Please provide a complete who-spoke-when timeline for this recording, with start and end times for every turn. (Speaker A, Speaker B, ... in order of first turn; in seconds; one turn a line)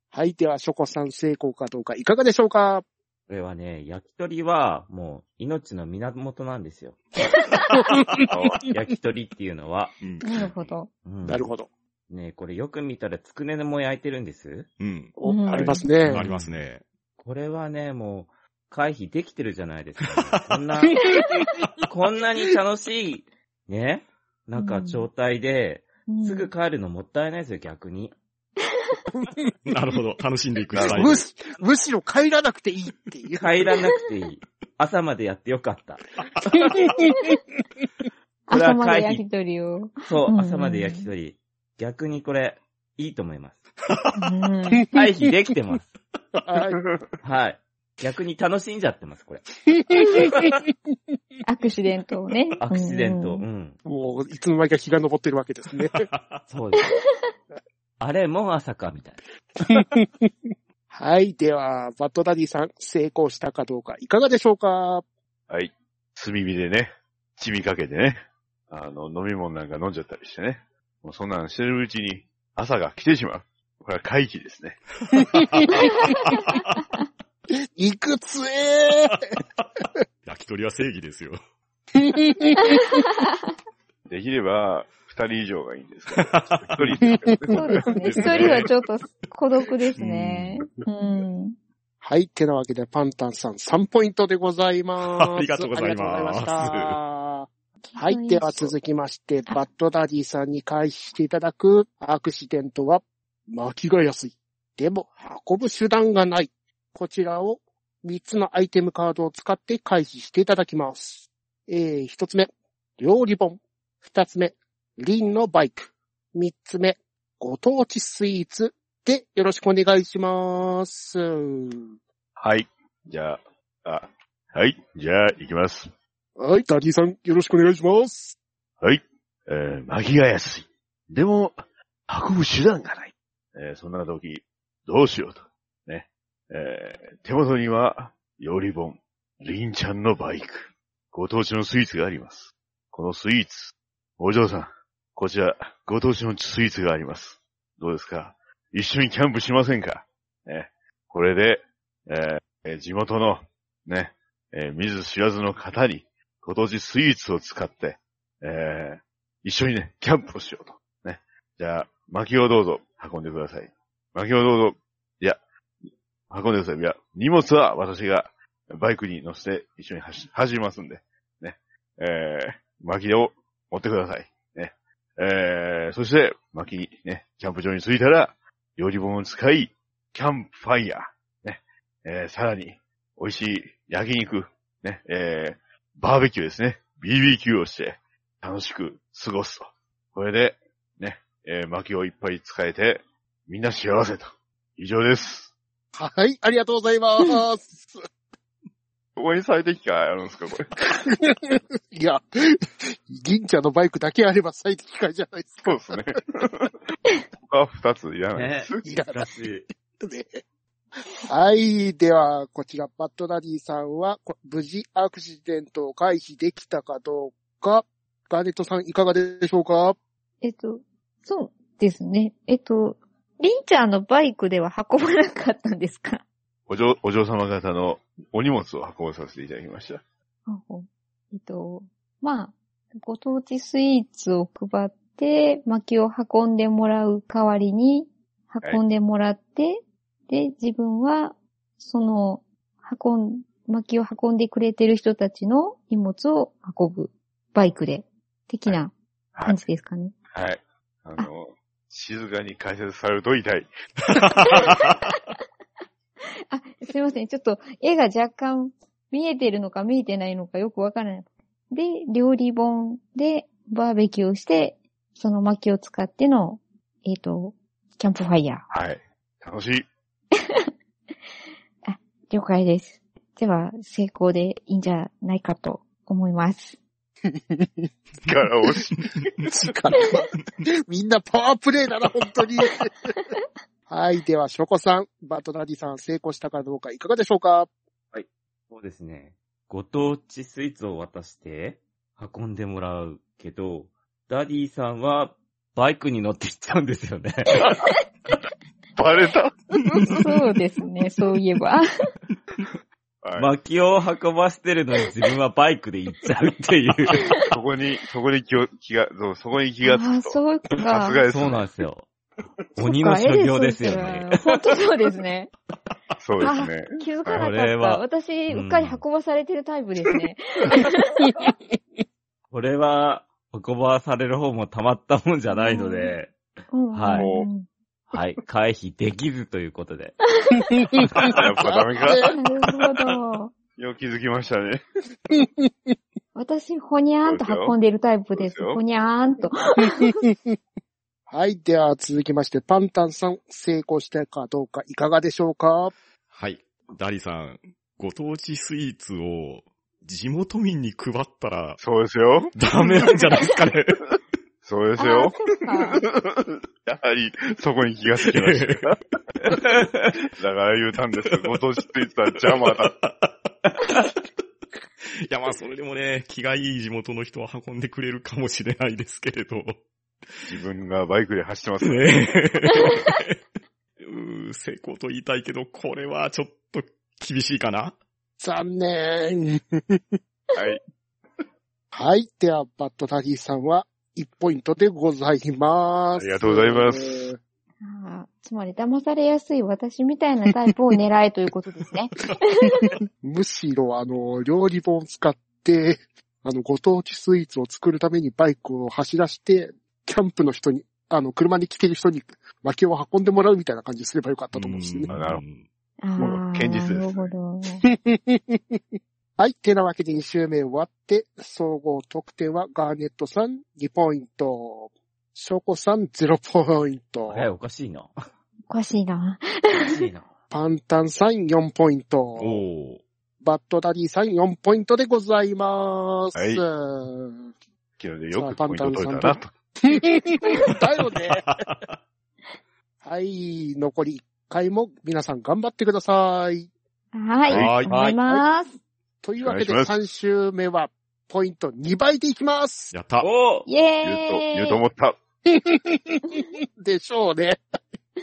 Speaker A: 0.1-2.8
Speaker B: 3.3-7.0
Speaker C: 7.4-7.6
Speaker A: 7.7-8.7
Speaker D: 8.3-8.6
Speaker B: 8.7-9.9
Speaker E: 10.0-10.7
Speaker C: 10.2-10.9
Speaker B: 11.1-11.5
Speaker A: 11.2-11.7
Speaker B: 12.1-14.7
Speaker E: 14.8-15.1
Speaker A: 15.2-16.3
Speaker C: 15.2-15.8
Speaker E: 16.0-16.8
Speaker B: 16.1-16.6
Speaker B: 17.2-21.0
Speaker E: 20.2-20.4
Speaker A: 20.9-21.2
Speaker C: 21.1-21.4
Speaker B: 21.9-28.2
Speaker C: 24.6-25.1
Speaker C: 26.1-26.5
Speaker A: 29.2-29.5
Speaker E: 29.7-31.2
Speaker D: 30.7-31.1
Speaker A: 30.8-33.5
Speaker B: 33.4-36.1
Speaker A: 36.6-37.1
Speaker C: 37.1-37.4
Speaker C: 38.5-41.1
Speaker B: 38.5-39.2
Speaker B: 40.1-43.6
Speaker E: 43.9-44.3
Speaker C: 44.2-44.9
Speaker B: 44.9-45.9
Speaker A: 46.4-46.8
Speaker D: 46.8-47.0
Speaker B: 47.2-49.5
Speaker A: 49.9-50.7
Speaker C: 50.0-50.3
Speaker C: 51.5-53.4
Speaker B: 52.6-53.8
Speaker A: 53.9-56.0
Speaker E: 56.0-56.4
Speaker B: 56.5-56.9
Speaker B: 58.0-59.2
Speaker A: 59.6-60.3
Speaker A: 60.9-65.0
Speaker D: 65.5-74.8
Speaker E: 75.4-75.7
Speaker C: 75.8-76.2
Speaker A: 77.8-79.3
Speaker E: 80.3-81.4
Speaker A: 82.0-83.0
Speaker C: 82.6-83.3
Speaker D: 84.1-88.6
Speaker E: 86.1-86.9
Speaker A: 87.0-88.2
Speaker C: 87.5-91.5
Speaker E: 88.0-88.7
Speaker E: 90.0-90.7
Speaker A: 92.0-121.9
Speaker E: 95.0-97.0
Speaker C: 97.9-98.7
Speaker D: 122.4-125.9
Speaker A: 126.4-128.4
Speaker D: 128.8-165.4
Speaker D: 166.3-195.5
Speaker A: 195.9-198.0
Speaker D: 199.2-200.7
Speaker A: 201.0-202.6
Speaker A: 203.1-206.0
Speaker D: 205.7-206.7
Speaker D: 207.4-208.9
Speaker B: 208.3-209.7
Speaker A: 208.8-209.3
Speaker A: 210.0-210.4
Speaker A: 211.2-220.0
Speaker C: 220.4-226.2
Speaker D: 226.7-230.0
Speaker C: 230.5-248.9
Speaker D: 249.3-249.6
Speaker C: 249.4-250.2
Speaker D: 250.3-253.7
Speaker E: 254.1-255.0
Speaker D: 254.4-254.7
Speaker C: 254.6-254.9
Speaker C: 256.5-268.6
Speaker D: 268.7-269.9
Speaker C: 270.4-270.6
Speaker C: 271.8-276.8
Speaker A: 277.3-277.9
Speaker D: 278.2-279.1
Speaker A: 279.5-280.3
Speaker A: 280.9-283.1
Speaker A: 283.9-287.7
Speaker B: 288.1-297.8
Speaker C: 297.6-297.9
Speaker D: 298.9-300.2
Speaker C: 300.0-301.9
Speaker D: 303.2-303.5
Speaker B: 303.4-307.3
Speaker D: 307.4-311.6
Speaker C: 309.8-311.2
Speaker B: 311.3-312.1
Speaker B: 312.8-314.5
Speaker C: 312.8-315.5
Speaker D: 316.2-317.4
Speaker C: 316.4-321.5
Speaker B: 317.4-319.0
Speaker B: 322.5-326.3
Speaker C: 325.5-326.1
Speaker C: 326.7-327.7
Speaker B: 326.9-327.3
Speaker D: 327.1-327.5
Speaker B: 328.1-330.2
Speaker C: 330.4-330.7
Speaker A: 330.8-332.4
Speaker D: 331.3-332.3
Speaker C: 332.3-333.5
Speaker D: 333.8-334.8
Speaker A: 335.4-335.7
Speaker C: 336.4-340.2
Speaker D: 337.3-337.8
Speaker D: 338.4-338.8
Speaker A: 339.8-340.6
Speaker A: 341.3-345.9
Speaker E: 346.3-351.8
Speaker D: 351.8-352.6
Speaker E: 352.6-354.0
Speaker D: 354.6-355.4
Speaker C: 355.0-356.0
Speaker D: 355.9-359.6
Speaker E: 358.2-358.9
Speaker B: 359.6-360.1
Speaker D: 360.4-362.9
Speaker E: 361.3-361.6
Speaker E: 362.4-364.1
Speaker E: 365.1-369.8
Speaker D: 370.5-372.2
Speaker E: 371.8-373.4
Speaker E: 374.0-378.0
Speaker A: 378.4-380.0
Speaker A: 381.9-387.4
Speaker D: 386.2-387.3
Speaker C: 387.8-392.9
Speaker A: 392.8-405.1
Speaker E: 404.5-405.6
Speaker D: 405.1-405.4
Speaker C: 406.0-407.8
Speaker D: 406.2-407.3
Speaker A: 407.9-408.8
Speaker A: 409.4-417.5
Speaker B: 417.3-418.2
Speaker C: 418.7-420.0
Speaker B: 419.7-420.3
Speaker A: 420.5-422.6
Speaker E: 422.4-423.0
Speaker A: 423.4-427.5
Speaker D: 426.4-426.6
Speaker D: 428.0-429.5
Speaker A: 428.3-431.5
Speaker E: 431.5-431.9
Speaker A: 433.0-436.7
Speaker C: 437.1-438.8
Speaker D: 437.5-437.8
Speaker E: 437.5-437.9
Speaker B: 437.9-438.2
Speaker A: 439.2-442.9
Speaker D: 439.4-440.0
Speaker E: 442.9-443.3
Speaker B: 443.2-443.7
Speaker C: 443.7-444.8
Speaker D: 444.0-445.2
Speaker A: 445.5-447.6